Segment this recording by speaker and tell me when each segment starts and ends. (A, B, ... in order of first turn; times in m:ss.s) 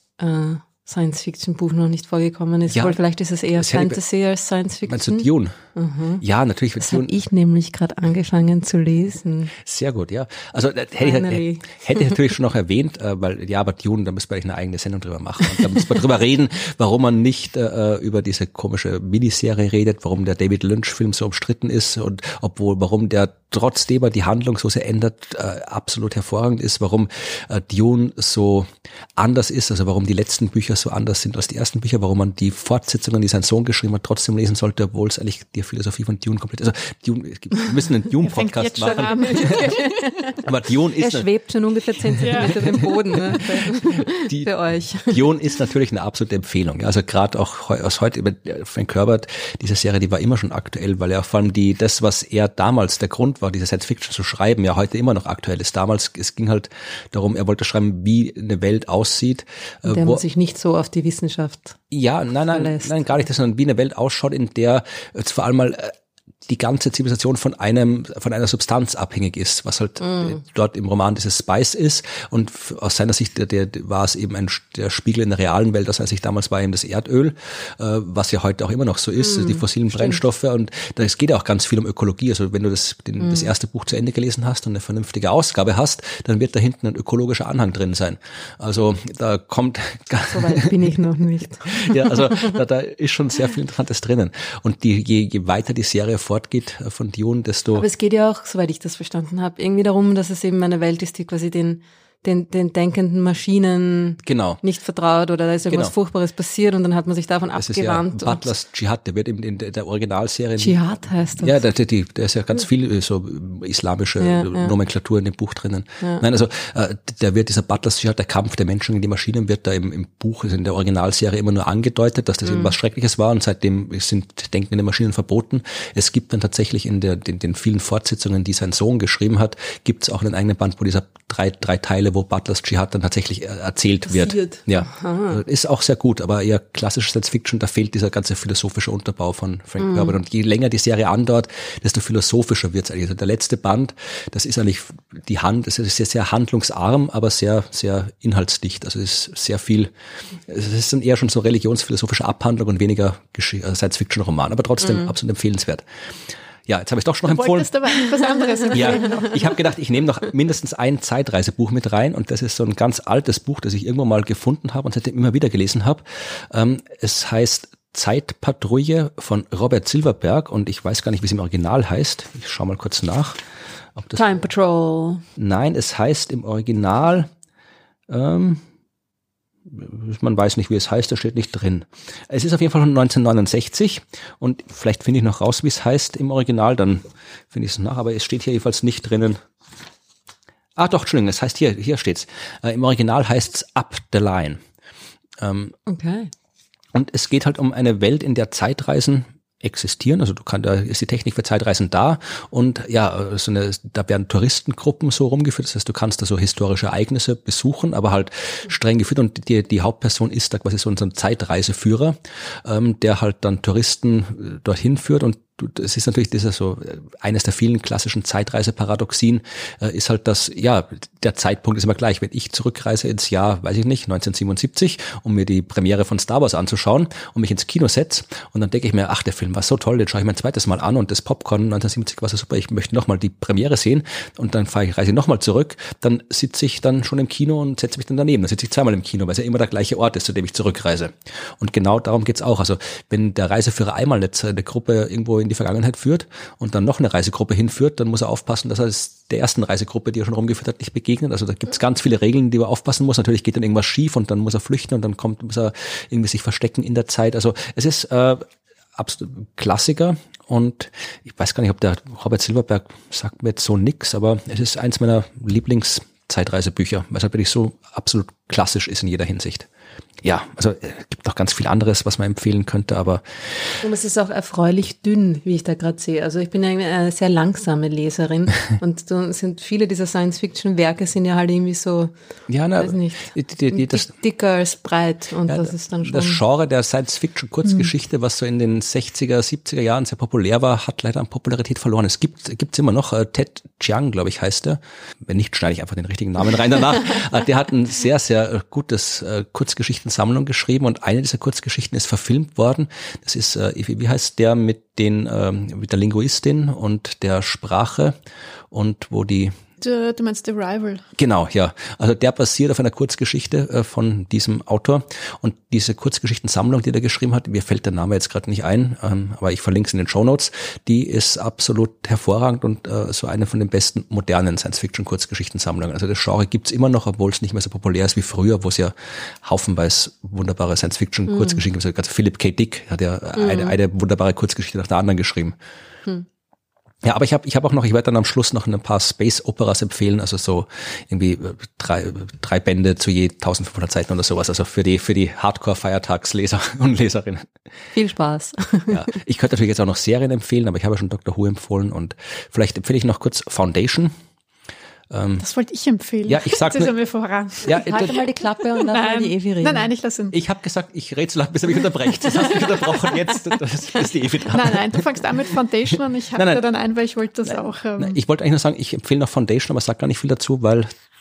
0:00.2-0:06.2 A
0:02.7-0:03.0 B
0:03.6-0:04.0 B
0:04.9-0:05.6 B
0:06.2-0:07.1 B
0:06.8-0:09.5 A
0:09.6-0:39.7 B
0:11.0-0:12.1 A
0:38.2-0:39.9 C
0:38.8-0:45.2 A
0:40.4-0:41.2 B
0:42.2-0:42.8 C
0:43.3-1:00.2 B
0:59.8-1:01.8 A
1:01.9-1:05.9 B
1:02.5-1:03.2 A
1:06.5-1:30.7 B
1:10.0-1:10.3 A
1:19.4-1:20.2 A
1:30.3-1:32.5 A
1:31.6-1:37.8 B
1:37.7-1:48.5 A
1:44.2-1:44.6 B
1:47.6-1:50.8 B
1:50.6-1:51.6 A
1:51.4-2:29.9 B
1:54.2-1:54.7 A
2:14.1-2:15.4 A
2:19.8-2:20.1 A
2:30.4-2:35.8 B
2:36.6-2:37.7 B
2:37.3-2:39.6 C
2:38.7-2:53.4 B
2:54.0-2:54.2 B
2:54.1-2:55.2 A
2:55.4-2:57.3 B
2:58.1-2:58.6 B
2:59.6-3:09.4 B
3:10.8-3:14.6 B
3:15.4-3:15.7 B
3:15.8-3:16.3 A
3:16.9-4:29.7 B
4:30.2-4:33.8 B
4:33.8-4:42.1 A
4:42.5-4:44.1 B
4:42.8-4:46.4 A
4:45.5-5:08.1 B
5:08.7-5:09.6 B
5:09.8-5:11.0 C
5:11.2-5:35.6 B
5:33.4-5:33.7 A
5:37.0-5:47.5 B
5:47.9-5:49.1 A
5:48.9-5:54.1 B
5:55.1-5:55.4 B
5:55.4-6:00.3 C
5:56.3-5:56.9 B
5:57.6-5:58.2 B
5:57.7-5:59.9 A
6:00.3-6:05.0 B
6:04.5-6:08.2 C
6:06.3-6:06.6 B
6:07.5-6:10.9 B